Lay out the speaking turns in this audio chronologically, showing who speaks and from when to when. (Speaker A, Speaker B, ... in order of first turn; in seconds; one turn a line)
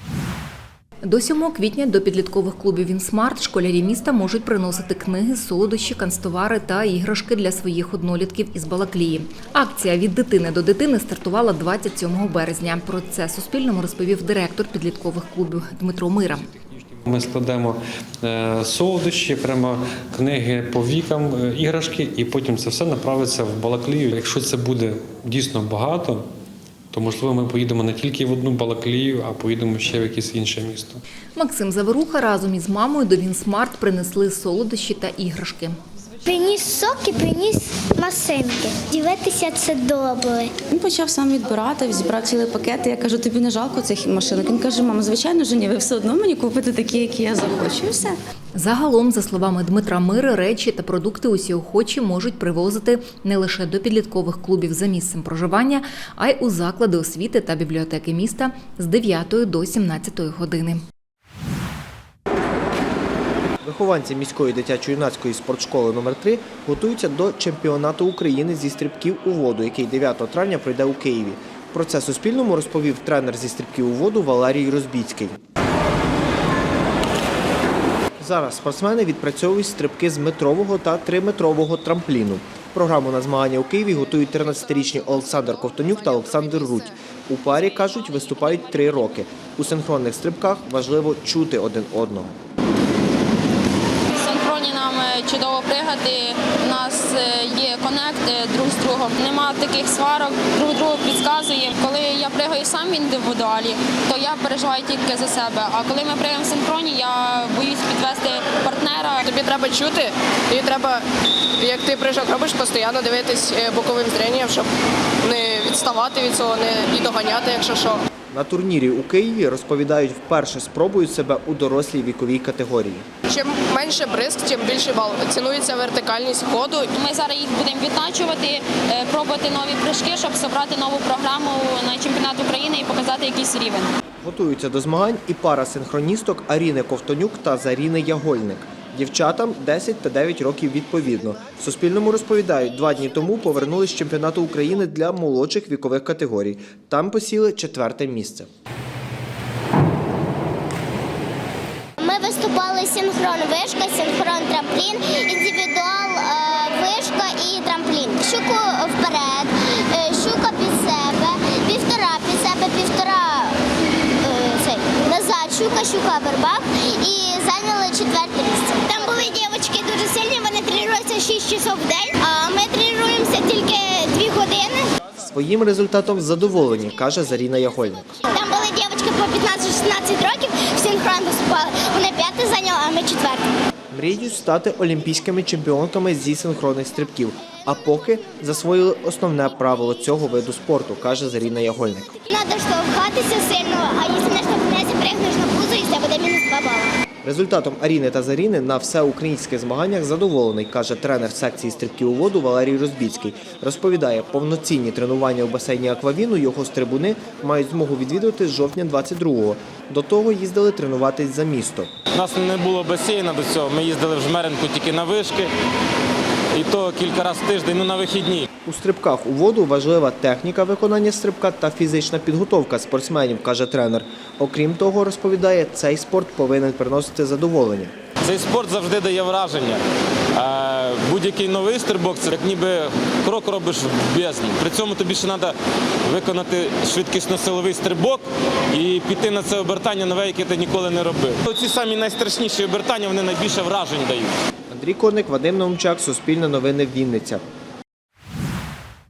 Speaker A: 1.0-16.4
Speaker B: 16.5-26.2
Speaker B: 26.9-31.0
Speaker A: 31.4-35.8
Speaker C: 36.3-38.9
Speaker C: 39.7-40.2
Speaker D: 40.7-48.1
Speaker A: 48.5-60.8
Speaker E: 63.6-75.4
Speaker E: 78.2-92.3
Speaker C: 94.3-109.1
Speaker F: 109.2-111.0
Speaker F: 111.6-114.7
Speaker F: 115.2-118.0
Speaker E: 118.3-123.0
Speaker F: 123.3-126.9
Speaker C: 127.1-133.9
Speaker E: 134.2-148.5
Speaker G: 152.0-163.6
Speaker G: 164.2-174.9
Speaker E: 175.2-178.2
Speaker G: 178.3-183.5
Speaker E: 183.9-192.2
Speaker G: 192.3-197.0
Speaker E: 197.2-211.9
Speaker H: 212.1-215.5
Speaker H: 216.6-218.4
Speaker E: 218.7-227.9
Speaker H: 228.2-229.8
Speaker H: 230.4-235.5
Speaker H: 236.1-244.3
Speaker E: 244.7-247.4